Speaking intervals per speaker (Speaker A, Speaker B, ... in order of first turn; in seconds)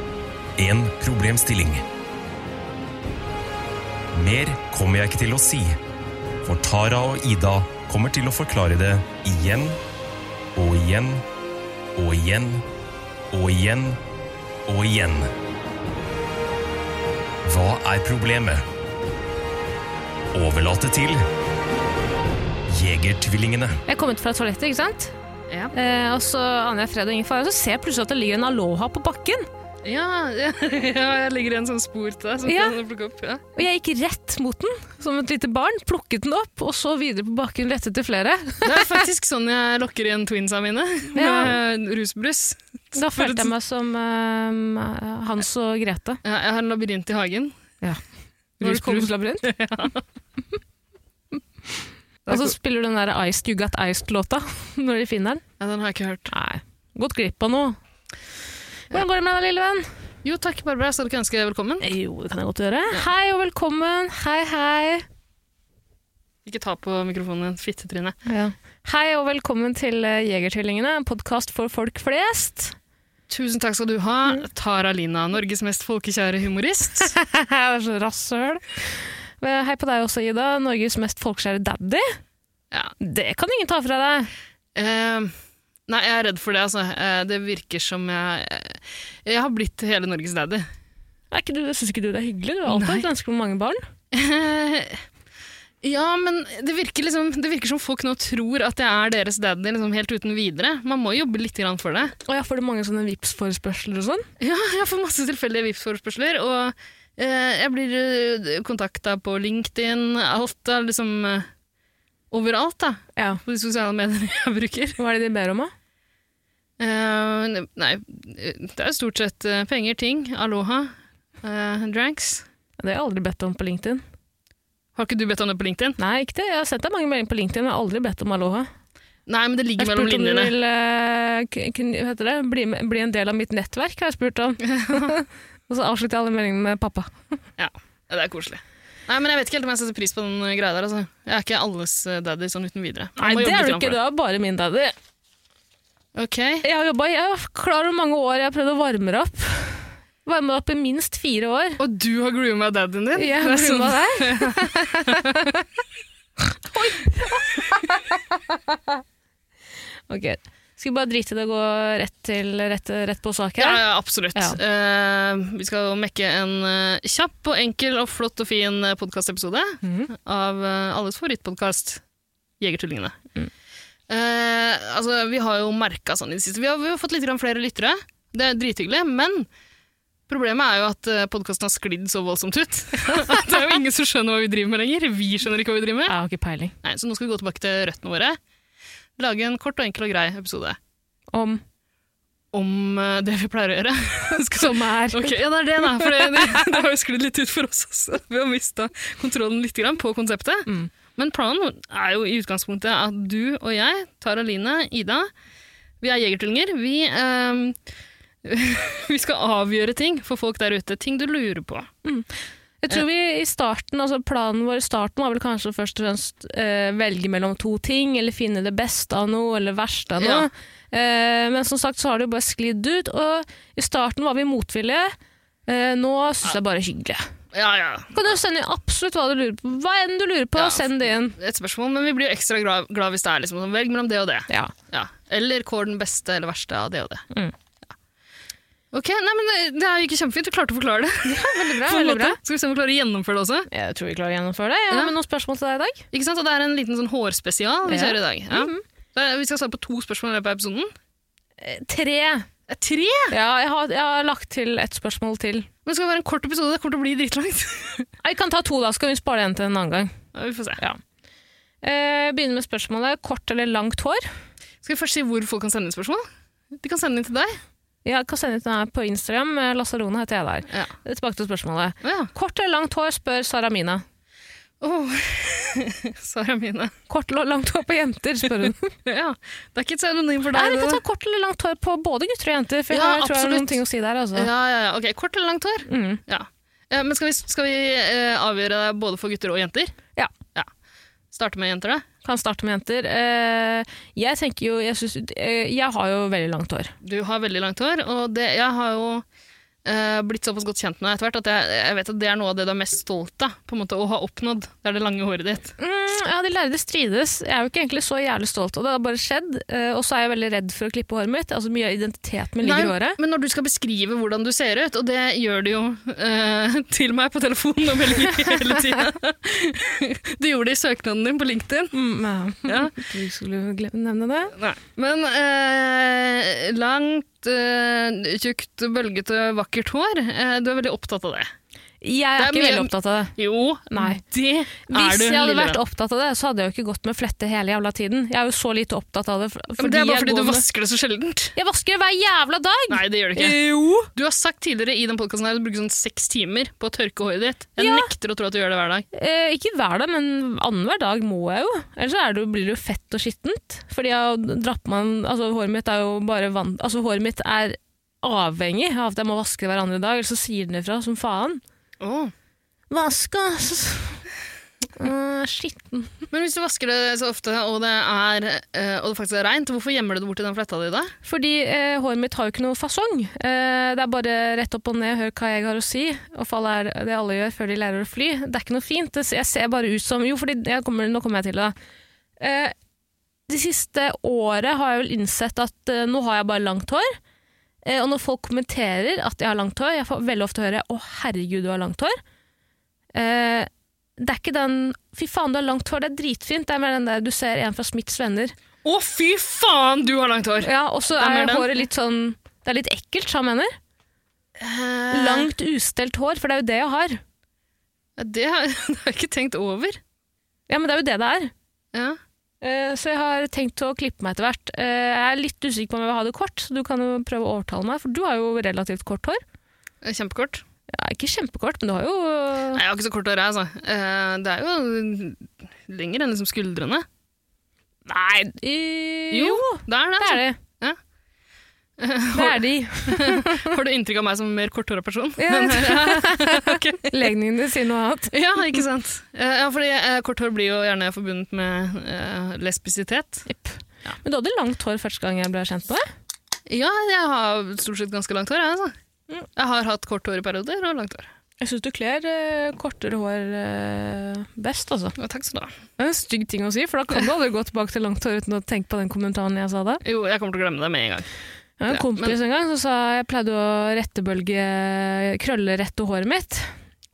Speaker A: 0.6-1.9, 4.1-5.8, 6.4-9.8, 10.6-11.2, 12.0-12.7, 13.3-14.0, 14.7-15.3, 17.4-18.6, 20.3-21.2, 22.7-23.8
Speaker B: 23.9-25.1, 25.7-29.5, 32.5-32.8, 33.6-39.0, 41.1-41.5, 43.0-46.2, 48.6-49.5, 51.8-55.4, 56.3-57.8, 58.9-59.9, 61.8-65.0, 68.3-72.8, 77.0-82.1, 83.0-84.3, 91.3-93.8, 102.3-104.3, 115.0-115.7, 122.8-124.0, 126.0-128.7, 129.8-137.1, 143.2-144.9, 146.6-151.8, 153.2-155.6, 156.7-159.0, 160.1-163.8, 169.8-170.1, 186.1-186.8, 191.3-191.6, 194.3-195.4, 196.0-196.8, 212.8-225.1, 225.7-227.3, 228.1-231.4, 241.3-242.4, 243.7-246.1, 247.9-248.8, 251.6-252.5, 253.3-255.7, 258.2-260.1, 261.8-264.3, 268.1-274.0, 277.1-278.9, 280.5-284.5, 285.9-286.2, 292.2-296.9, 305.8-313.2, 321.9-324.6, 332.0-333.4, 333.9-334.2, 334.9-340.6, 341.6-344.1, 347.8-348.1, 349.1-361.6, 362.9-364.2, 365.0-366.3, 371.2-381.8, 382.4-382.8, 383.5-387.2, 387.9-392.2, 393.1-398.5, 400.6-403.7, 405.1-407.2, 410.7-411.5, 412.6-419.4, 420.9-422.8, 428.1-430.6, 432.3-433.8, 435.4-438.3, 443.5-446.1, 451.6-455.1, 456.0-460.0, 461.8-466.7
Speaker C: 29.8-33.4, 38.6-43.5, 46.2-47.5, 48.6-50.0, 52.3-52.5, 55.6-56.3, 60.2-61.9, 66.5-68.2, 73.3-77.1, 84.8-85.3, 85.9-90.7, 92.7-93.1, 94.1-95.0, 95.8-102.2, 104.4-111.5, 112.3-115.0, 116.8-122.5, 125.0-126.0, 129.3-130.5, 134.6-135.2, 137.6-144.0, 146.2-146.6, 151.8-155.4, 163.6-172.0, 172.6-173.2, 174.1-179.5, 180.3-186.2, 186.8-188.4, 189.2-190.8, 192.5-205.3, 206.0-207.8, 208.4-211.9, 220.2-220.5, 227.5-228.3, 230.6-237.3, 238.9-243.7, 246.1-250.9, 252.7-253.3, 255.8-258.1, 260.3-260.8, 264.8-266.2, 266.8-267.6, 272.0-272.3, 274.8-276.9, 279.1-281.0, 282.9-283.8, 284.4-289.9, 291.3-292.1, 297.0-299.2, 299.9-305.8, 312.6-321.9, 322.7-323.1, 324.6-331.5, 332.4-335.8, 339.8-341.5, 342.9-349.1, 362.0-362.3, 366.3-371.1, 398.8-401.9, 404.6-405.5, 408.2-410.0, 411.9-412.2, 420.0-420.6, 422.8-427.1, 429.3-431.0, 432.0-437.1, 438.3-443.5, 446.7-448.9, 449.6-451.3, 455.2-455.7, 460.0-461.3, 461.9-462.4